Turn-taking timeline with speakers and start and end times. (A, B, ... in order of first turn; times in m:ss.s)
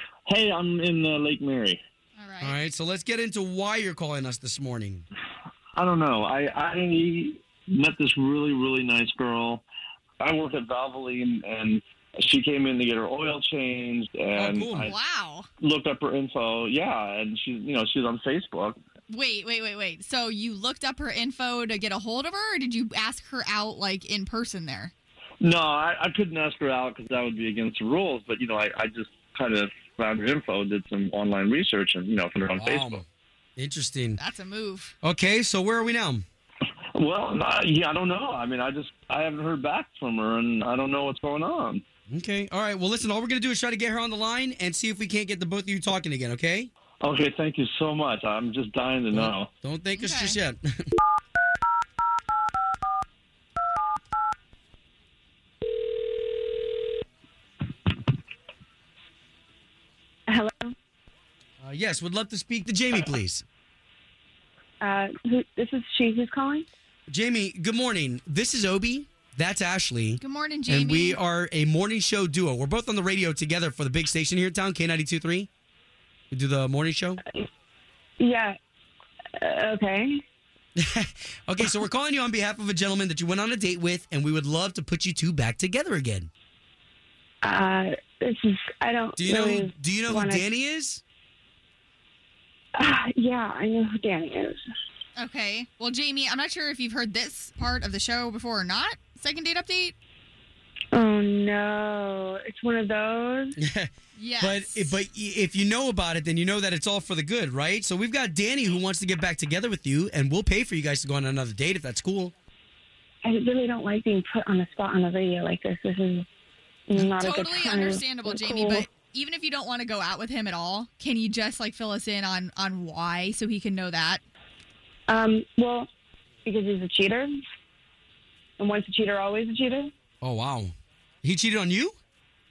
0:00.3-0:01.8 A
0:02.2-0:02.6 B
0:02.4-0:05.0 C
0:05.8-0:09.6 A
0:10.2-0:15.0 A
0:14.4-0:14.9 C
0:14.8-0:15.5 B
0:15.6-0:18.8 A
0:19.1-0:24.9 B
0:25.4-0:33.0 A
0:32.6-0:33.0 C
0:33.6-0:34.2 C
0:34.2-0:34.9 B
0:35.0-0:36.2 C
0:36.9-0:41.8 A
0:42.1-0:46.7 C
0:47.0-0:49.5 A
0:49.1-0:50.8 C
0:50.0-0:50.4 B
1:00.3-1:00.8 D
1:01.6-1:03.4 C
1:04.8-1:06.7 D
1:07.1-1:15.5 C
1:10.2-1:11.2 B
1:16.3-1:17.2 C
1:18.2-1:18.6 D
1:19.4-1:20.2 D
1:20.8-1:26.3 C
1:27.4-1:30.5 D
1:29.2-1:31.0 C
1:32.8-1:34.6 D
1:35.2-1:39.9 B
1:40.9-1:43.6 D
1:43.6-1:52.3 C
1:44.2-1:45.0 B
1:53.2-1:56.3 D
1:56.9-1:58.9 D
1:57.2-2:04.2 B
2:05.1-2:05.9 D
2:06.4-2:07.3 D
2:08.6-2:09.9 D
2:10.2-2:12.0 C